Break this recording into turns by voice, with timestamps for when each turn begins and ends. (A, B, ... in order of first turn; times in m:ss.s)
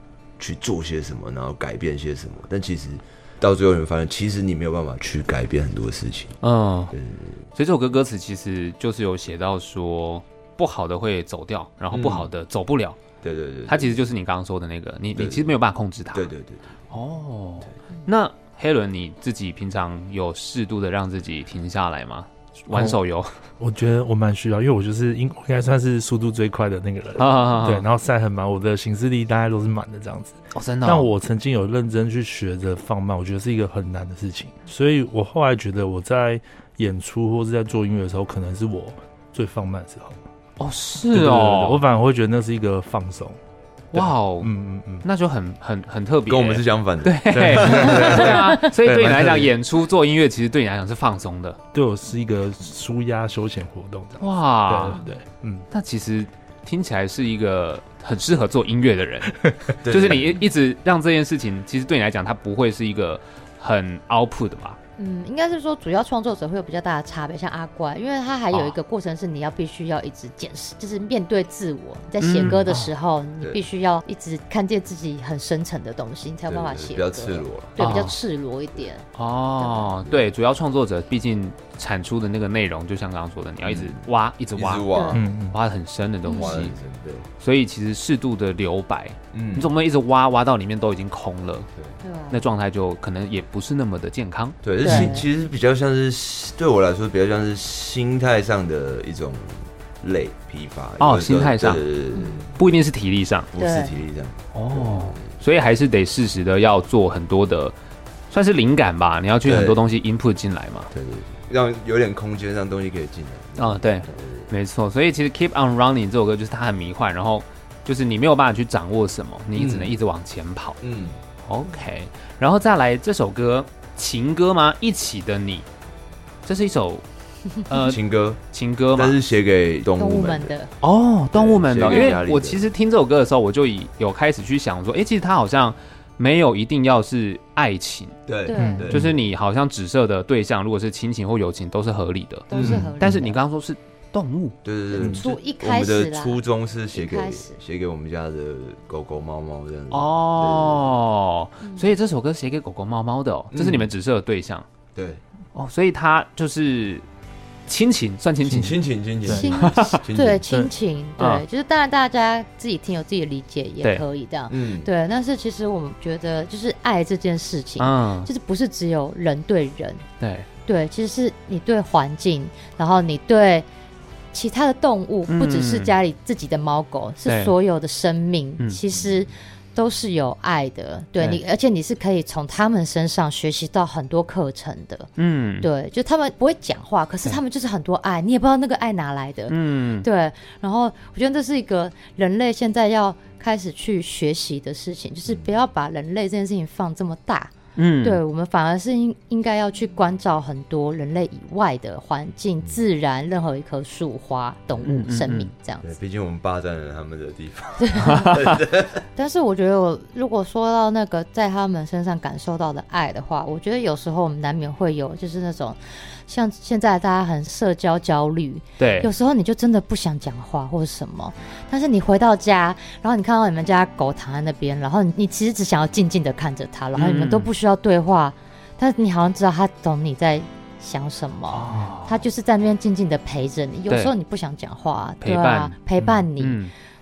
0:00.4-0:06.4 A
0:06.4-0:06.9 B
0:06.9-0:07.4 A
0:07.6-0:13.0 B
0:11.9-0:12.3 A
0:13.2-0:14.0 A
0:13.7-0:16.3 B
0:15.2-0:15.5 A
0:16.1-0:16.8 A
0:16.9-0:23.3 B
0:22.7-0:23.0 C
0:23.6-0:40.2 C
0:27.2-0:27.9 B
0:30.5-0:31.1 B
0:40.6-0:41.8 B
0:41.1-0:43.4 C
0:43.9-0:44.5 B
0:43.9-0:45.1 C
0:45.0-0:51.6 B
0:46.3-0:49.5 A
0:47.3-0:49.5 C
0:51.7-0:55.7 C
0:54.2-0:55.0 B
0:55.7-1:04.8 B
0:59.4-0:59.7 C
0:59.8-1:00.5 A
1:05.0-1:19.0 D
1:12.2-1:12.9 B
1:16.5-1:17.8 A
1:17.8-1:18.2 B
1:19.2-1:26.8 B
1:19.6-1:19.9 D
1:23.6-1:24.0 A
1:24.6-1:25.3 A
1:24.9-1:25.2 D
1:25.1-1:25.6 C
1:26.2-1:26.7 D
1:26.3-1:27.3 A
1:27.4-1:31.7 B
1:29.3-1:29.7 A
1:32.0-1:32.5 D
1:32.3-1:35.1 B
1:34.6-1:42.5 A
1:34.8-1:35.3 D
1:41.0-1:41.8 B
1:42.1-1:42.6 D
1:42.6-1:43.5 B
1:43.5-1:45.4 A
1:43.6-1:43.9 D
1:44.5-1:47.7 B
1:48.3-1:50.9 B
1:49.4-1:49.8 A
1:50.9-1:54.5 A
1:53.6-2:00.8 B
1:59.6-1:59.9 A
2:00.8-2:01.2 A
2:01.4-2:05.7 B
2:06.4-2:07.0 B
2:07.7-2:09.2 B
2:07.8-2:08.4 A
2:08.9-2:10.5 A
2:10.0-2:10.7 D
2:10.8-2:18.2 B
2:11.3-2:12.7 A
2:11.8-2:12.2 D
2:18.3-2:19.2 A
2:18.5-2:18.9 D
2:18.6-2:19.1 C
2:18.9-2:24.6 B
2:22.5-2:23.4 D
2:22.5-2:22.9 A
2:22.6-2:22.9 C
2:24.6-2:30.9 A
2:25.0-2:26.4 D
2:26.9-2:27.6 D
2:29.9-2:34.7 B
2:31.6-2:31.9 D
2:33.5-2:33.9 A
2:35.0-2:35.2 A
2:35.6-2:37.0 B
2:37.7-2:38.8 B
2:38.4-2:39.5 C
2:38.5-2:40.4 A
2:39.3-2:50.0 D
2:39.5-2:40.0 B
2:41.2-2:41.4 B
2:44.5-2:44.9 A
2:47.8-2:48.3 B
2:50.2-2:50.5 B
2:50.7-2:53.7 D
2:54.3-3:05.1 D
2:55.3-2:55.9 B
2:57.3-2:57.5 B
2:58.9-2:59.2 A
3:05.2-3:05.7 B
3:05.6-3:25.9 D
3:09.5-3:10.1 B
3:15.3-3:15.5 A
3:17.8-3:18.2 B
3:24.8-3:25.5 B
3:25.8-3:29.0 A
3:27.8-3:28.6 D
3:28.0-3:28.6 B
3:29.2-3:56.6 D
3:38.8-3:39.1 B
3:47.0-3:47.5 B
3:51.5-3:52.2 B
3:55.2-3:55.8 B
3:56.0-3:56.2 C
3:56.4-3:56.7 B